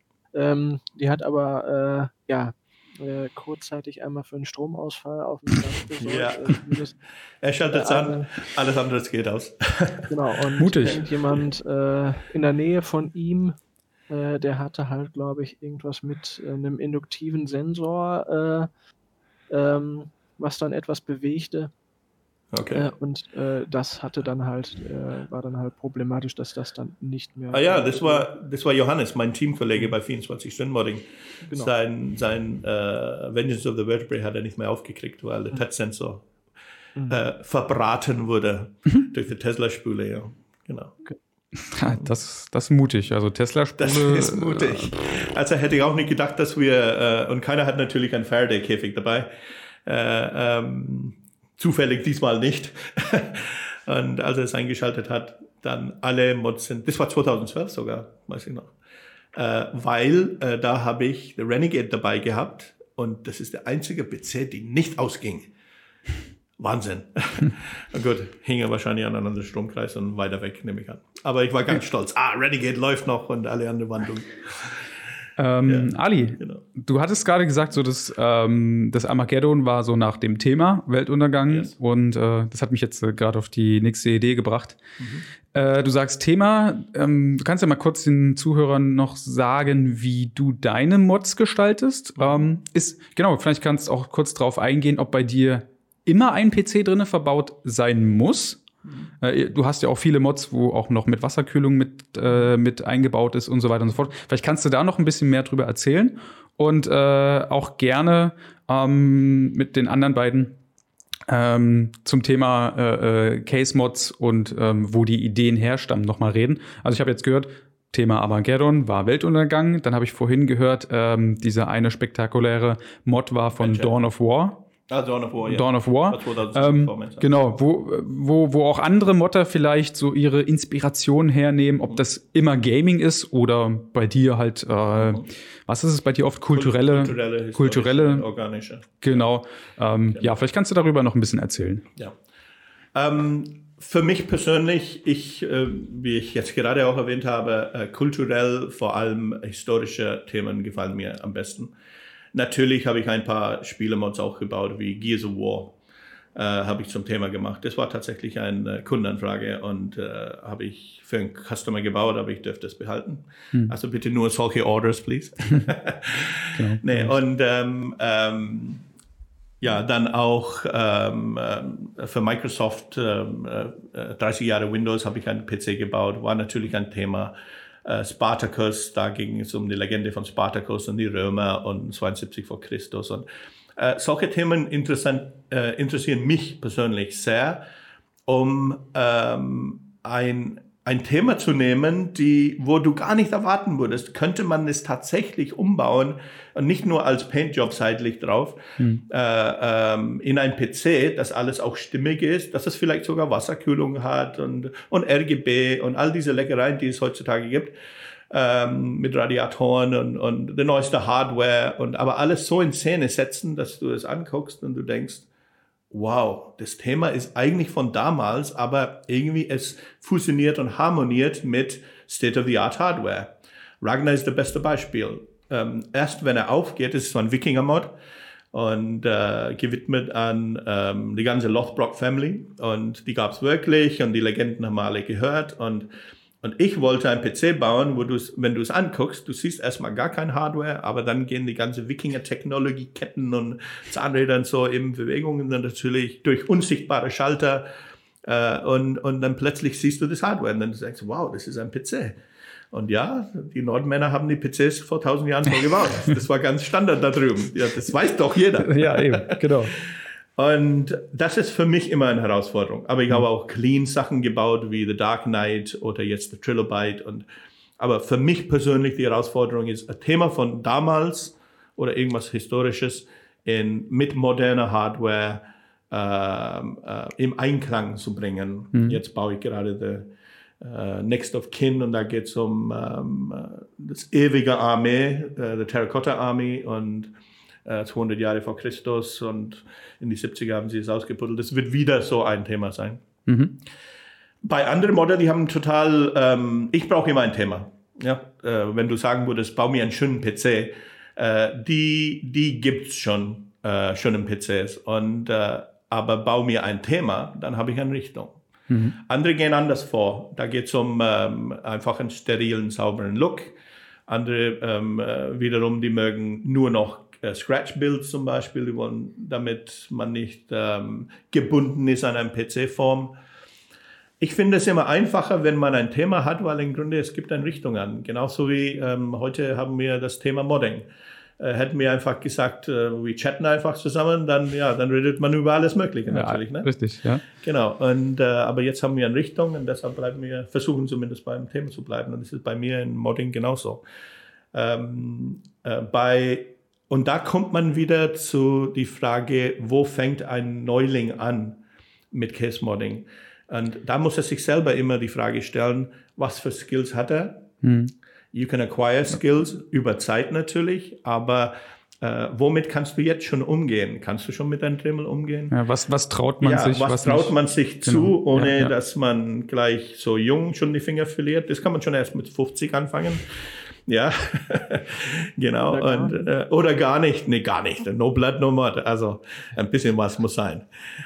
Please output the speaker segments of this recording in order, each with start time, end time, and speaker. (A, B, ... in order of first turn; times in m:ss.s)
0:00.3-0:07.0 A
0:06.0-0:06.6 B
0:07.4-0:10.1 B
0:07.7-0:08.3 A
0:10.1-0:13.6 A
0:10.6-0:11.0 C
0:14.1-0:18.7 A
0:19.5-0:21.7 A
0:22.5-0:22.9 B
0:22.7-0:28.3 A
0:27.5-0:36.3 B
0:31.4-0:31.7 A
0:37.0-0:37.2 A
0:37.1-0:40.9 B
0:41.6-0:44.9 C
0:43.8-0:49.3 B
0:49.8-0:58.7 B
0:59.3-1:05.5 B
1:06.6-1:14.9 B
1:15.4-1:24.8 C
1:15.6-1:16.6 B
1:21.5-1:21.7 B
1:25.0-1:25.2 B
1:25.5-1:38.6 C
1:32.2-1:32.4 B
1:39.2-1:50.6 C
1:51.3-2:04.6 C
2:03.6-2:04.0 B
2:04.9-2:07.4 B
2:05.4-2:18.3 C
2:16.5-2:19.3 B
2:19.0-2:21.9 C
2:22.9-2:31.7 B
2:32.3-2:35.8 B
2:36.3-2:48.8 B
2:46.5-2:47.2 C
2:49.6-2:57.3 B
2:57.8-3:07.6 B
3:08.2-3:27.7 B
3:28.3-3:35.3 B
3:35.9-3:48.0 B
3:48.5-3:55.9 B
3:56.4-4:07.7 B
4:08.2-4:12.2 B
4:12.7-4:27.3 B
4:18.6-4:19.7 C
4:27.8-4:53.0 B
4:53.3-4:53.5 C
4:54.4-5:08.4 B
5:08.7-5:09.0 C
5:09.0-5:13.5 B
5:14.1-5:23.1 B
5:24.2-5:30.9 B
5:31.4-5:36.7 B
5:36.1-5:37.2 C
5:37.2-5:43.8 B
5:44.5-5:51.6 B
5:52.1-5:57.5 B
5:57.6-5:57.9 C
5:58.3-6:05.5 B
6:05.5-6:08.7 C
6:06.4-6:20.7 B
6:15.7-6:16.3 A